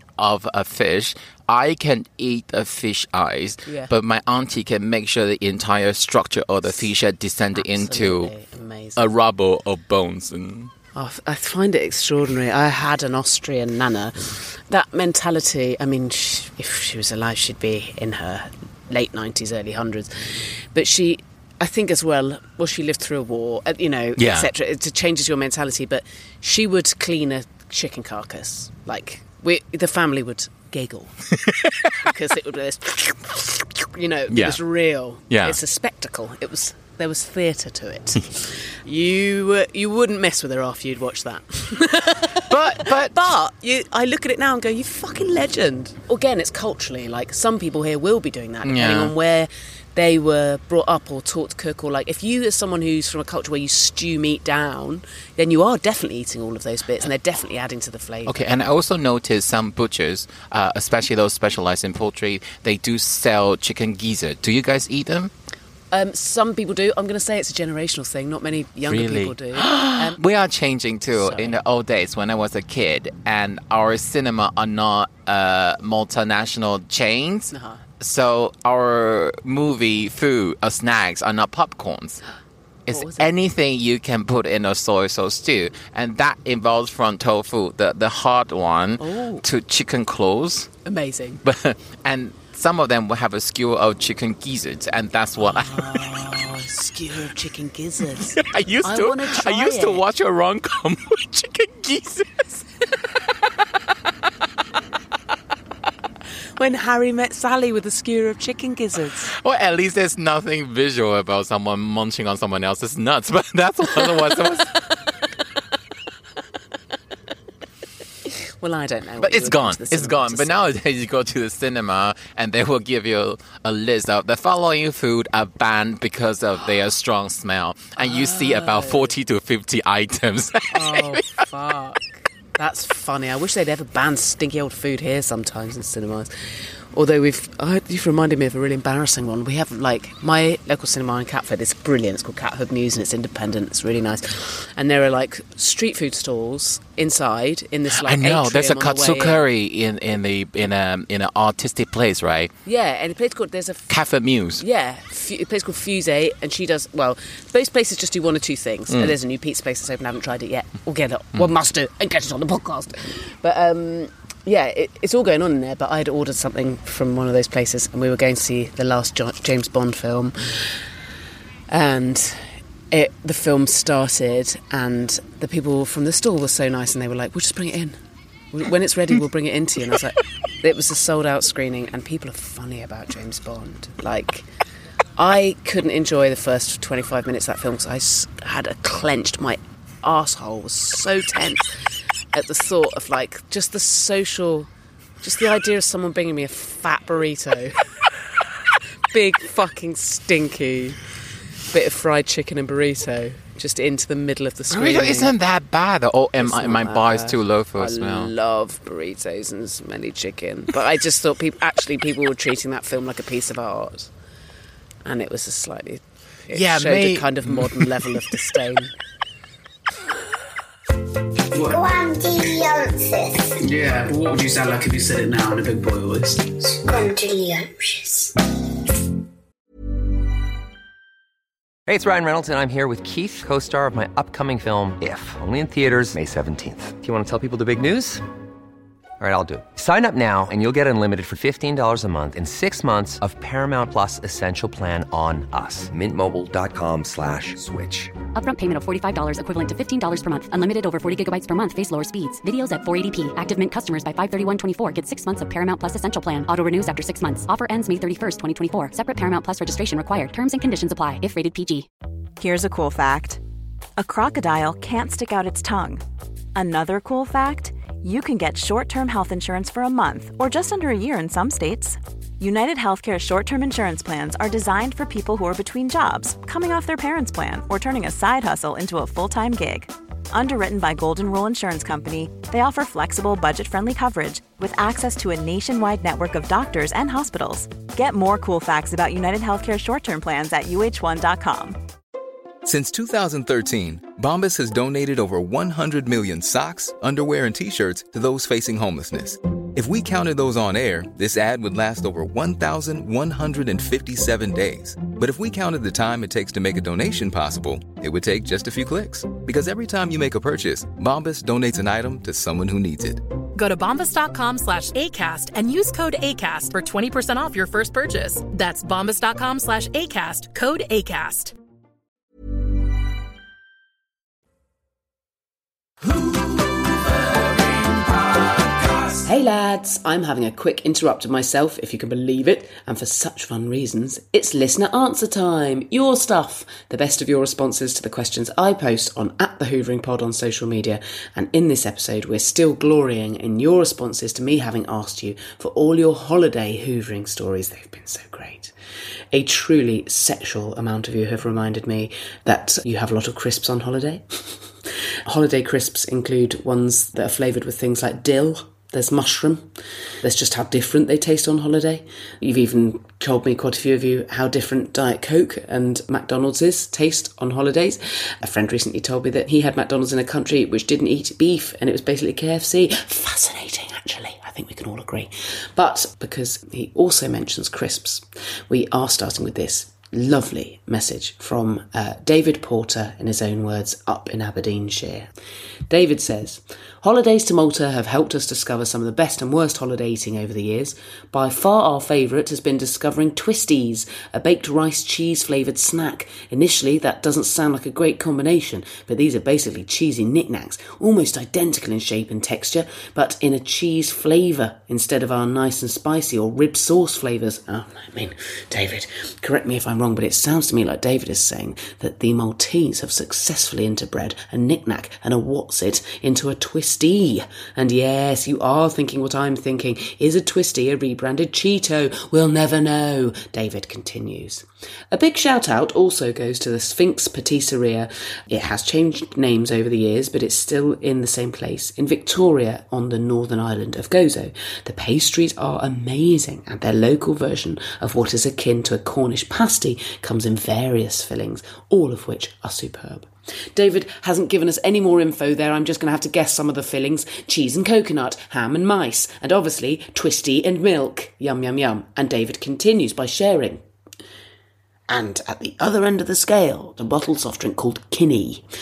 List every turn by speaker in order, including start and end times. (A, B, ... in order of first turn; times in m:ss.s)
0:00.2-0:08.3 A
0:03.7-0:03.9 B
0:07.6-0:09.1 B
0:09.0-0:10.7 A
0:10.9-0:31.1 B
0:24.2-0:24.5 A
0:31.3-0:31.9 A
0:32.0-0:58.4 B
0:34.3-0:34.6 A
0:35.3-0:35.6 A
0:42.5-0:43.2 A
0:48.6-0:49.1 A
0:58.3-1:05.3 A
1:05.9-1:10.2 B
1:08.9-1:22.2 A
1:11.2-1:11.6 B
1:17.5-1:17.8 B
1:22.9-1:30.7 A
1:22.9-1:23.3 B
1:29.0-1:29.4 B
1:30.8-1:31.4 B
1:31.4-1:36.0 A
1:35.4-1:40.0 B
1:38.2-1:42.6 A
1:46.6-1:49.3 B
1:49.3-1:54.9 A
1:58.2-2:00.7 B
1:59.2-2:11.4 A
2:08.0-2:09.1 B
2:10.7-2:29.4 B
2:27.9-2:32.5 A
2:32.7-2:33.9 B
2:33.9-2:34.6 A
2:34.6-2:50.8 B
2:38.9-2:39.2 A
2:51.7-2:58.0 B
2:58.5-3:04.5 B
3:05.2-3:11.7 B
3:12.3-3:14.7 B
3:15.2-3:17.8 B
3:19.1-3:21.0 B
3:21.7-3:25.3 B
3:24.7-3:28.3 A
3:26.4-3:34.1 B
3:35.0-3:38.9 B
3:36.5-3:37.9 A
3:41.5-3:41.8 C
3:41.7-3:43.6 D
3:43.6-3:46.8 C
3:46.8-3:48.3 D
3:51.9-3:58.2 E
3:59.2-4:08.1 E
4:08.4-4:21.9 F
4:22.4-4:23.4 G
4:24.0-4:26.0 G
4:26.6-4:51.8 G
4:52.6-5:13.2 H
5:13.6-5:21.6 I
5:29.2-5:48.7 B
5:49.3-5:54.6 B
5:55.3-5:59.7 B
6:00.2-6:25.3 B
6:25.9-7:33.8 B
7:35.1-7:38.6 B